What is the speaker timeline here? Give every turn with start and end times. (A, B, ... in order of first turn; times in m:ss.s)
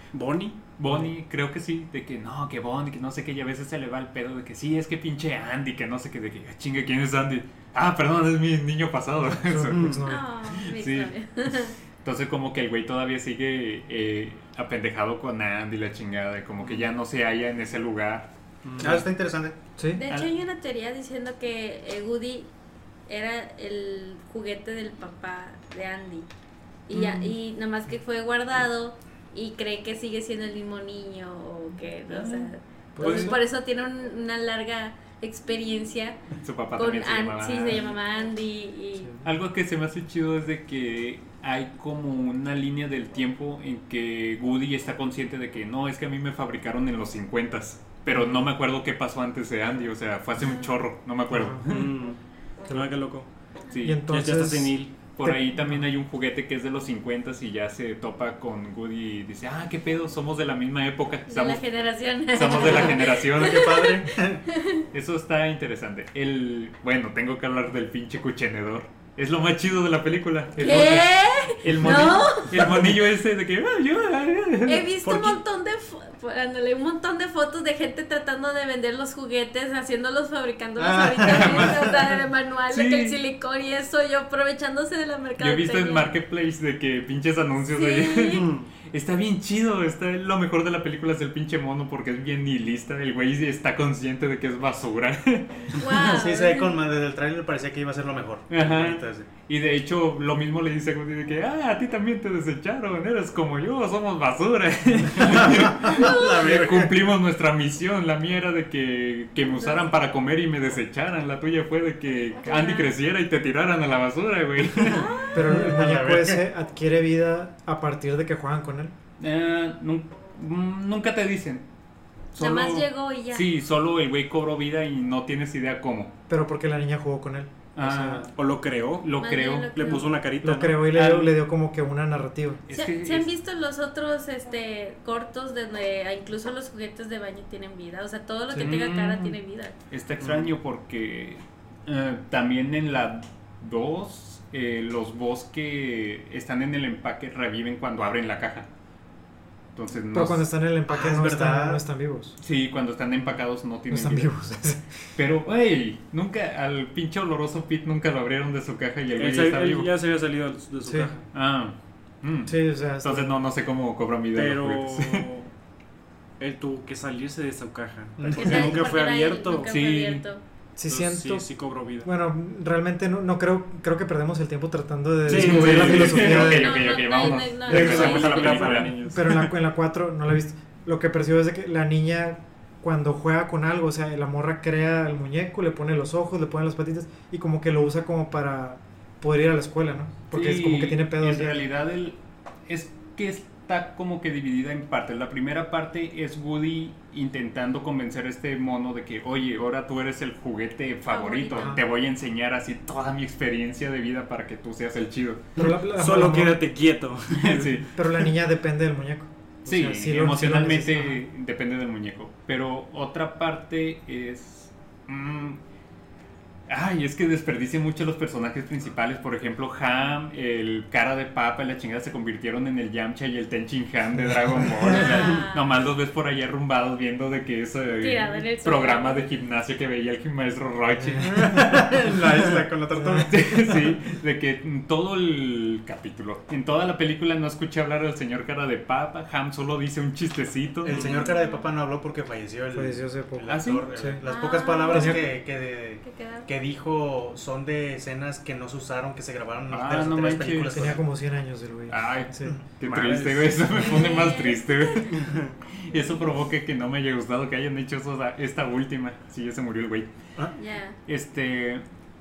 0:00.1-0:00.6 A
0:00.8-0:10.0 B
0:09.3-0:10.2 C
0:09.7-0:10.0 A
0:10.0-0:11.7 D
0:10.6-0:11.1 B
0:12.0-0:18.3 B
0:18.6-0:19.0 A
0:18.8-0:19.6 E
0:19.8-0:20.0 C
0:19.9-0:22.5 D
0:23.1-0:26.3 D
0:26.9-0:36.2 D
0:32.1-0:33.4 B
0:33.0-0:33.4 C
0:36.4-0:37.9 B
0:36.8-0:39.1 D
0:39.2-0:51.9 B
0:51.3-0:51.8 C
0:51.6-0:53.3 A
0:53.7-0:54.0 B
0:53.8-0:55.8 C
0:54.1-0:55.1 A
0:55.1-1:01.6 B
1:01.3-1:04.8 D
1:02.3-1:03.8 B
1:03.2-1:04.4 E
1:04.9-1:15.3 B
1:10.6-1:12.6 D
1:14.6-1:26.1 D
1:20.8-1:22.1 E
1:22.7-1:23.2 B
1:25.4-1:36.1 B
1:27.7-1:28.5 D
1:35.7-1:36.7 D
1:36.0-1:39.3 E
1:38.5-1:55.1 B
1:45.2-1:47.0 E
1:45.9-1:46.3 D
1:52.4-1:52.9 D
1:54.8-1:55.6 D
1:55.3-1:58.9 C
1:55.4-1:56.5 E
1:59.2-2:01.6 B
2:02.3-2:06.1 B
2:02.4-2:03.5 D
2:06.3-2:08.3 C
2:07.8-2:08.3 B
2:08.3-2:09.1 A
2:09.0-2:10.0 B
2:09.2-2:10.1 D
2:09.7-2:10.8 A
2:10.4-2:12.6 C
2:10.9-2:11.3 B
2:12.7-2:13.3 B
2:12.7-2:19.7 D
2:18.5-2:19.4 B
2:19.9-2:28.7 B
2:29.8-2:30.4 B
2:30.1-2:32.4 C
2:30.9-2:31.8 E
2:32.4-2:34.3 B
2:33.9-2:34.8 C
2:35.2-2:39.9 B
2:39.2-2:41.2 A
2:40.8-2:41.1 C
2:41.3-2:45.2 B
2:42.5-2:43.4 C
2:44.3-2:45.5 A
2:46.4-2:49.7 A
2:48.2-2:48.8 E
2:48.3-2:50.4 D
2:49.6-2:50.2 B
2:50.8-2:56.8 C
2:50.9-2:52.1 A
2:55.2-2:56.6 A
2:55.3-2:58.9 B
2:56.3-2:58.6 D
2:57.6-2:59.5 A
2:58.6-3:11.6 C
3:10.3-3:25.5 B
3:21.1-3:21.8 D
3:21.5-3:21.8 C
3:25.6-3:26.6 C
3:25.6-3:27.8 A
3:27.3-3:27.9 B
3:27.9-3:31.2 C
3:29.6-3:35.6 B
3:36.7-3:51.7 B
3:44.8-3:45.6 D
3:48.0-3:49.3 D
3:51.0-3:51.8 C
3:51.2-3:53.5 E
3:53.0-3:53.3 C
3:53.3-4:01.3 B
4:00.8-4:11.0 E
4:00.9-4:01.6 D
4:02.7-4:04.2 C
4:03.5-4:03.9 B
4:04.2-4:05.3 D
4:04.9-4:05.2 C
4:06.0-4:06.5 D
4:09.7-4:11.0 B
4:10.7-4:12.6 C
4:11.9-4:15.3 B
4:12.8-4:13.8 A
4:13.7-4:15.2 D
4:15.1-4:15.5 A
4:15.8-4:20.1 B
4:20.6-4:21.0 D
4:21.0-4:21.8 B